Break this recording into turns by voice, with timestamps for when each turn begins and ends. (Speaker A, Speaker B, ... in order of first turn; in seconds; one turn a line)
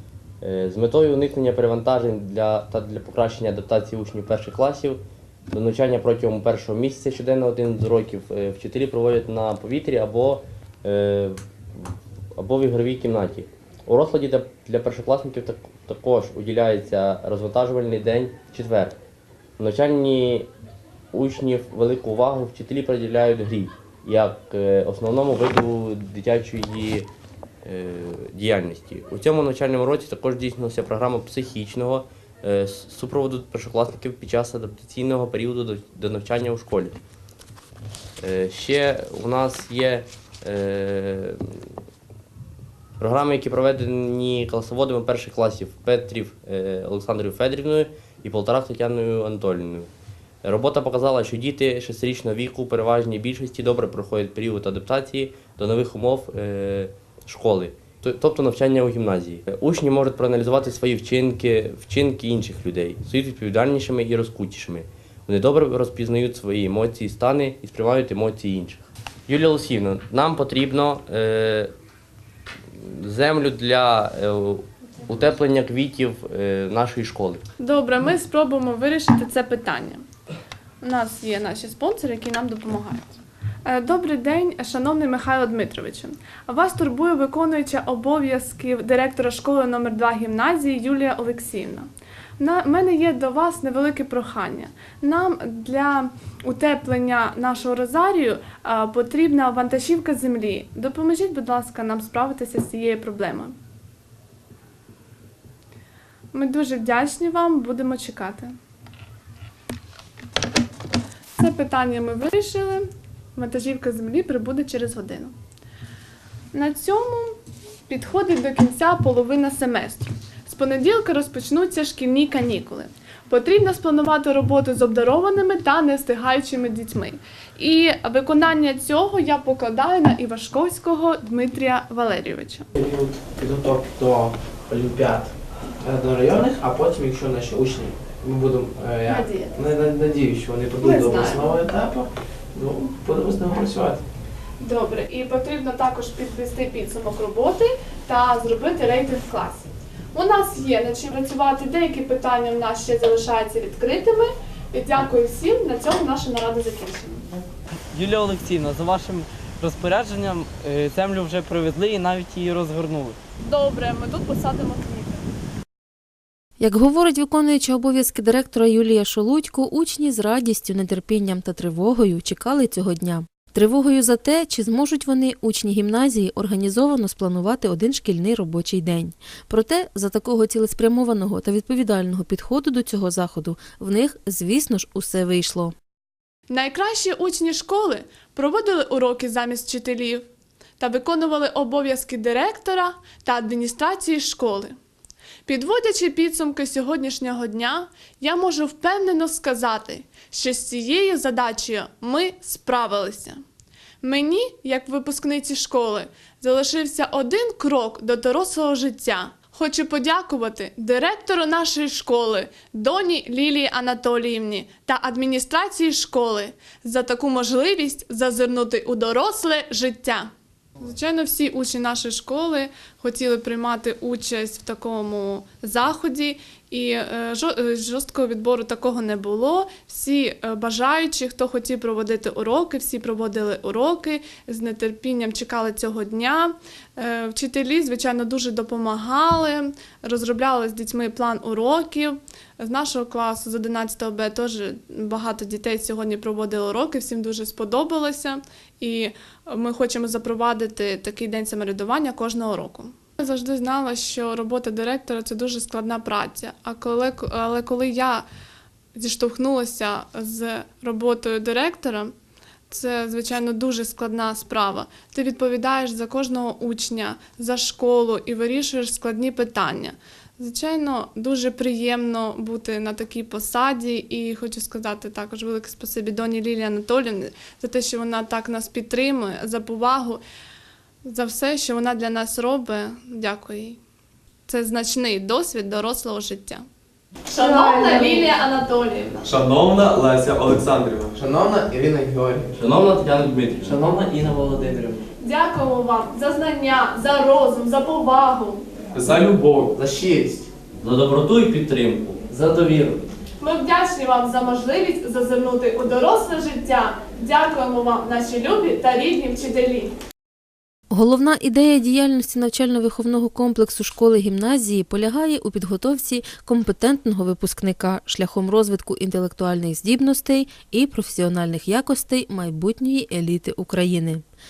Speaker A: 0.4-5.0
Speaker A: 5.5-11.9
Speaker A: 12.4-19.0
Speaker A: 19.6-20.5
Speaker A: 21.1-27.1
Speaker A: 27.6-37.0
Speaker A: 38.2-41.6
Speaker A: 43.0-49.9
Speaker A: 50.4-71.7
Speaker A: 72.8-77.4
Speaker B: 77.6-80.0
Speaker B: 80.8-91.9
Speaker B: 92.4-103.5
Speaker B: 106.3-108.5
Speaker B: 111.4-115.3
Speaker B: 116.5-132.7
Speaker C: 132.8-144.0
Speaker B: 139.1-139.6
Speaker B: 140.8-141.5
Speaker B: 144.6-157.2
Speaker D: 157.9-163.2
Speaker B: 163.4-165.2
Speaker E: 166.6-185.8
Speaker B: 186.5-190.2
Speaker B: 190.8-194.7
Speaker B: 195.5-203.4
Speaker B: 204.0-220.3
Speaker B: 220.8-258.2
Speaker B: 258.9-262.1
Speaker B: 262.7-280.2
Speaker B: 281.0-283.8
Speaker B: 284.5-286.6
Speaker B: 287.3-289.3
Speaker F: 289.2-291.2
Speaker C: 291.1-292.5
Speaker A: 292.5-295.0
Speaker C: 293.6-294.1
Speaker B: 295.2-298.6
Speaker F: 298.9-299.8
Speaker C: 299.7-300.5
Speaker A: 300.8-303.1
Speaker B: 303.4-309.9
Speaker E: 310.9-324.2